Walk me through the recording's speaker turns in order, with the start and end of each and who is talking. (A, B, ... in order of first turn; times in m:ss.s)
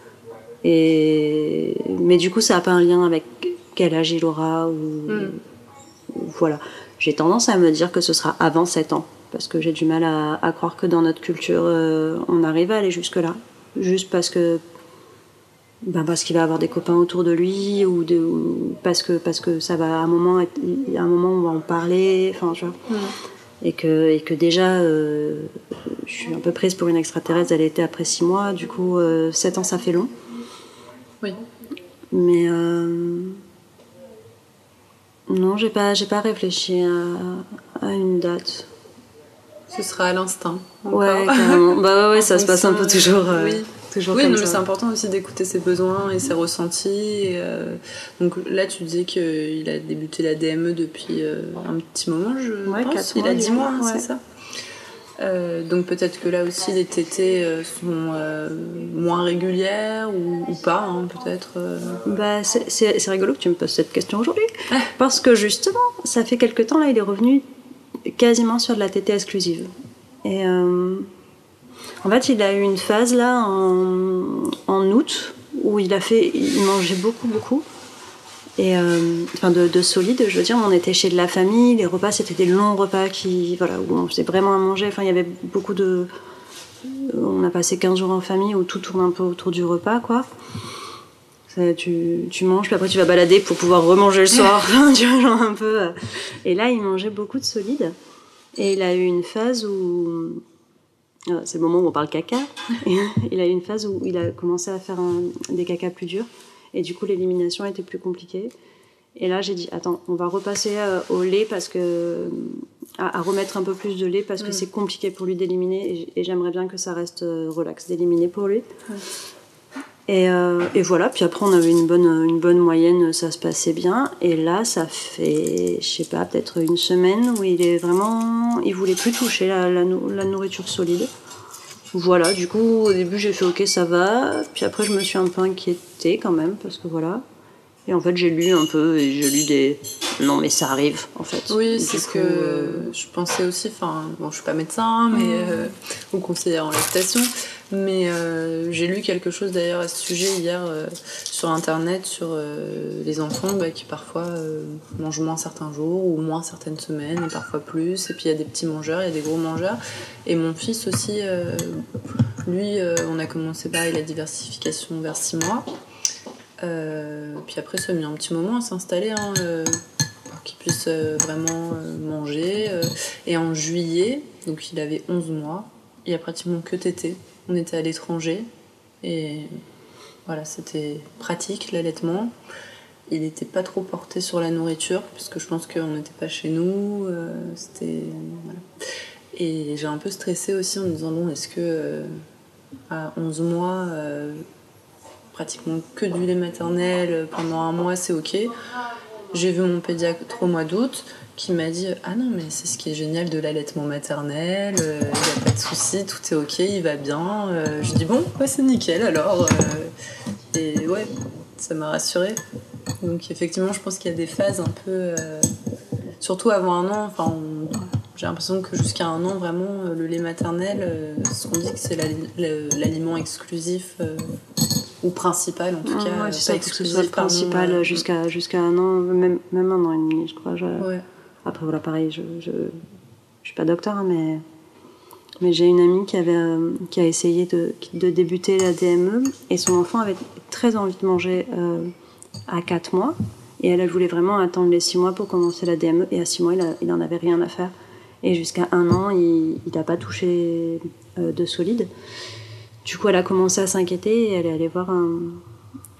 0:00.6-0:05.4 A
0:05.1-0:05.4 B
0:06.1-0:14.6 A
0:15.8-0:22.8 A
0:22.9-0:23.1 B
0:23.6-0:30.1 A
0:32.1-0:33.4 A
0:35.3-0:38.7 A
0:39.7-0:54.2 B
0:40.9-0:44.6 A
0:52.7-0:54.1 A
0:55.2-1:02.0 B
1:02.0-1:07.4 A
1:08.1-1:09.7 A
1:10.2-1:11.1 A
1:12.0-1:17.6 A
1:18.6-1:26.1 A
1:26.8-1:30.3 A
1:31.5-1:37.9 A
1:38.6-1:40.4 A
1:41.3-1:48.5 A
1:49.2-1:58.7 A
2:00.1-2:11.1 A
2:11.9-2:17.2 A
2:17.9-2:22.9 A
2:21.5-2:41.8 B
2:25.1-2:25.7 A
2:42.4-2:45.7 B
2:46.6-2:58.5 B
2:59.0-2:59.5 B
3:00.3-3:02.3 B
3:03.1-3:08.7 B
3:09.3-3:12.1 B
3:12.9-3:14.4 B
3:15.3-3:18.5 B
3:19.3-3:29.9 B
3:30.5-3:32.4 B
3:33.0-3:35.5 B
3:36.2-3:44.3 B
3:45.0-3:48.0 B
3:45.8-3:50.9 A
3:50.8-3:51.0 B
3:51.4-3:52.8 A
3:53.4-3:54.4 A
3:55.4-4:01.9 A
4:02.5-4:11.9 A
4:12.8-4:15.4 A